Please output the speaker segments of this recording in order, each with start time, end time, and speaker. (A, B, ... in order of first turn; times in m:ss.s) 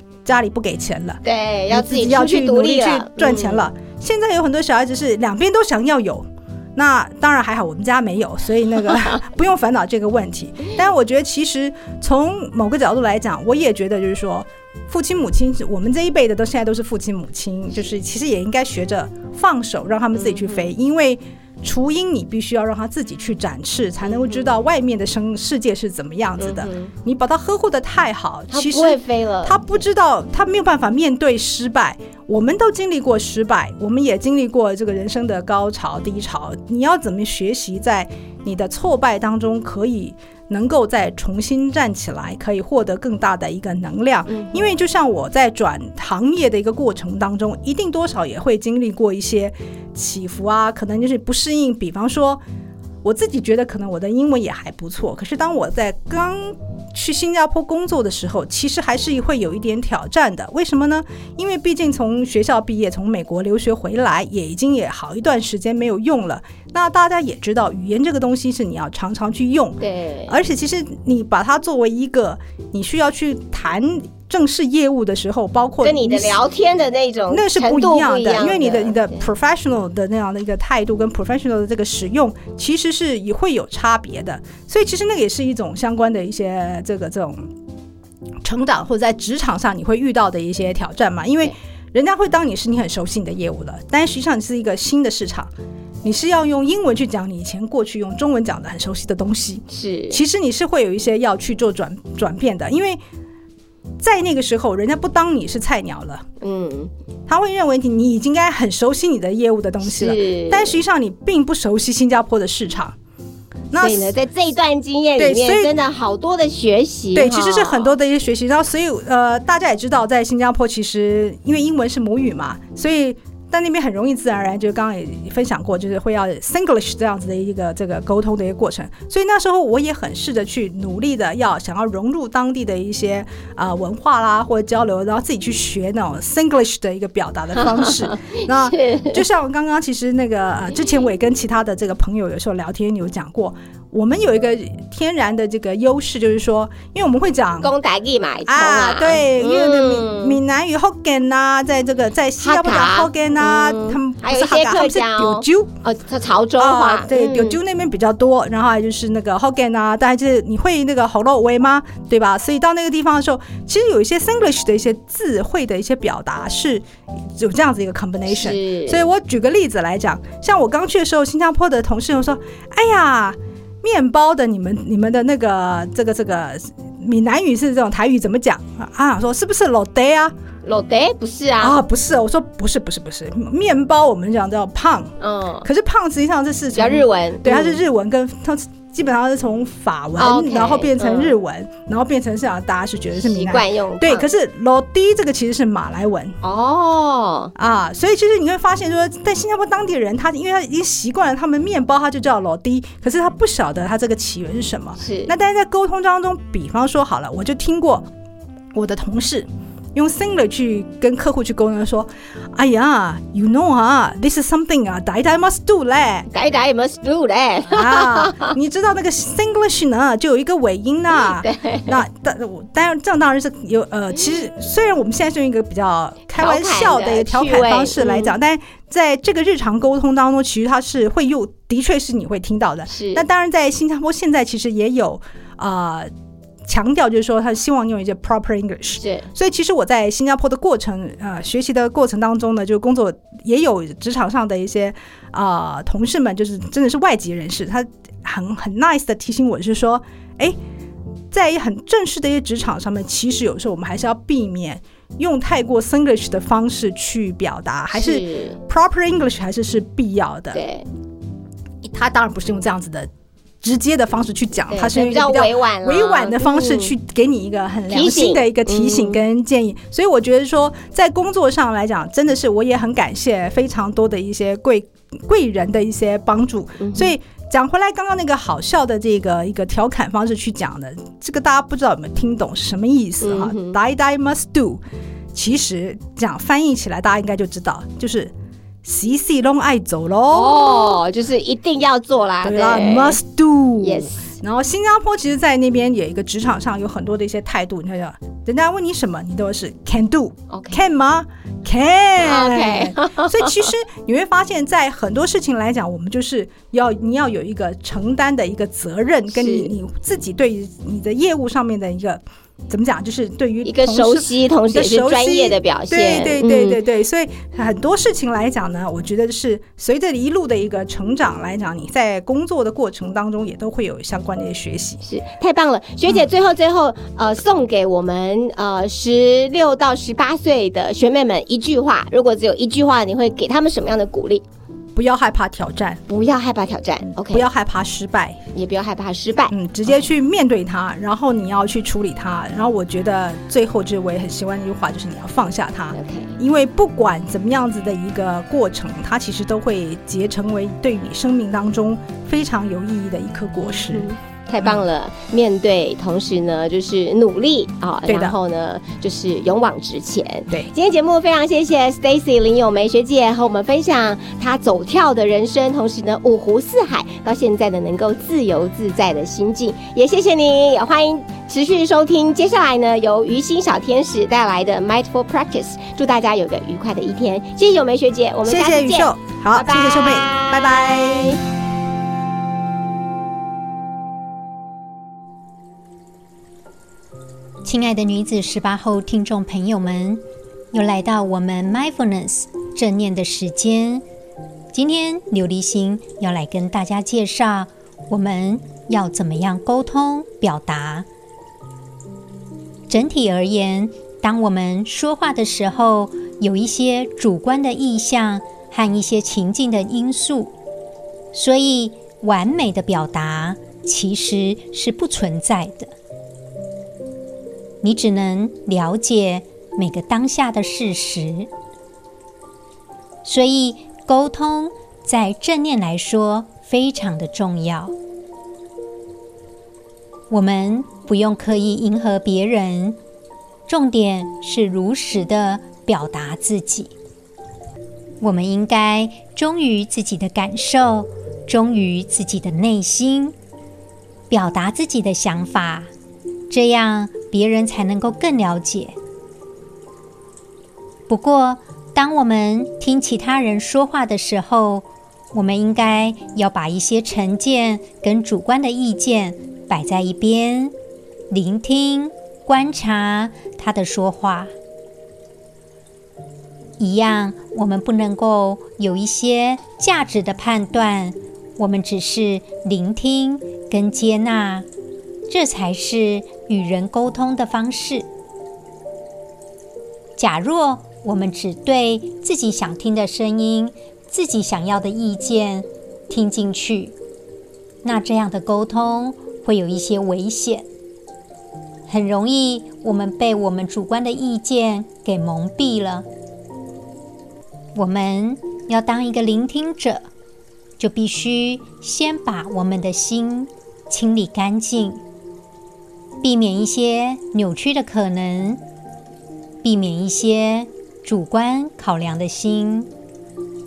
0:00.2-0:52.4 A
0:01.2-0:03.7 B
0:20.2-0:20.6 B
0:24.0-0:24.4 B
0:26.4-0:26.9 B
0:28.5-0:29.6 B
0:44.3-0:44.6 B
0:53.0-1:16.4 A
1:09.8-1:10.3 B
1:15.8-1:19.2 B
1:17.3-1:27.5 A
1:28.4-1:35.5 A
1:36.0-1:43.0 A
1:39.7-1:40.2 B
1:44.0-1:46.3 A
1:46.4-1:46.9 B
1:47.3-1:53.0 A
1:49.8-1:50.8 B
1:53.7-1:54.2 A
1:53.8-1:57.9 B
1:55.2-1:55.7 A
1:57.1-2:27.7 A
2:17.6-2:19.2 B
2:27.6-2:30.4 B
2:28.5-2:35.7 A
2:32.4-2:37.6 B
2:36.6-3:00.3 A
2:48.3-2:49.1 B
3:00.6-3:01.8 B
3:01.6-3:05.1 A
3:05.2-3:05.7 B
3:05.6-3:16.4 A
3:06.8-3:07.8 B
3:10.2-3:11.4 B
3:13.2-3:14.3 B
3:16.4-3:17.5 B
3:17.6-3:28.1 A
3:25.0-3:25.3 B
3:28.7-3:36.3 A
3:36.3-3:38.5 B
3:37.7-3:56.1 A
3:41.2-3:42.0 B
3:46.3-3:48.3 B
3:52.9-3:53.2 B
3:56.7-4:10.6 A
3:59.0-3:59.3 B
4:11.3-4:20.6 A
4:17.9-4:18.6 B
4:20.5-4:20.8 B
4:21.8-4:23.1 A
4:23.6-4:44.8 A
4:24.7-4:26.9 B
4:27.9-4:29.2 B
4:36.8-4:37.1 B
4:43.2-4:43.8 B
4:45.3-4:48.3 A
4:48.8-4:50.9 A
4:50.3-4:53.2 B
4:52.4-5:25.0 A
4:53.8-4:54.2 B
5:00.5-5:00.8 B
5:02.2-5:03.7 B
5:09.3-5:09.7 B
5:13.6-5:16.8 B
5:25.0-5:34.4 B
5:35.0-5:36.0 A
5:36.1-5:37.5 B
5:37.3-5:38.4 A
5:38.5-5:39.6 B
5:39.5-5:54.1 A
5:45.9-5:46.4 B
5:53.9-6:21.4 B
5:58.1-5:58.4 A
6:18.4-6:21.4 A
6:27.6-6:34.0 C
6:34.7-6:41.1 C
6:42.9-6:50.5 C
6:51.3-6:55.9 C
6:57.8-7:01.5 C
7:03.2-7:08.0 C
7:10.3-7:13.0 C
7:13.7-7:16.9 C
7:18.2-7:23.3 C
7:24.3-7:25.9 C
7:26.5-7:29.0 C
7:31.1-7:40.7 C
7:41.3-7:44.5 C
7:46.8-7:54.7 C
7:55.3-7:58.1 C
8:00.2-8:07.0 C
8:07.8-8:10.7 C
8:11.9-8:16.1 C
8:17.8-8:20.1 C
8:20.8-8:25.0 C
8:26.2-8:28.6 C
8:29.6-8:32.9 C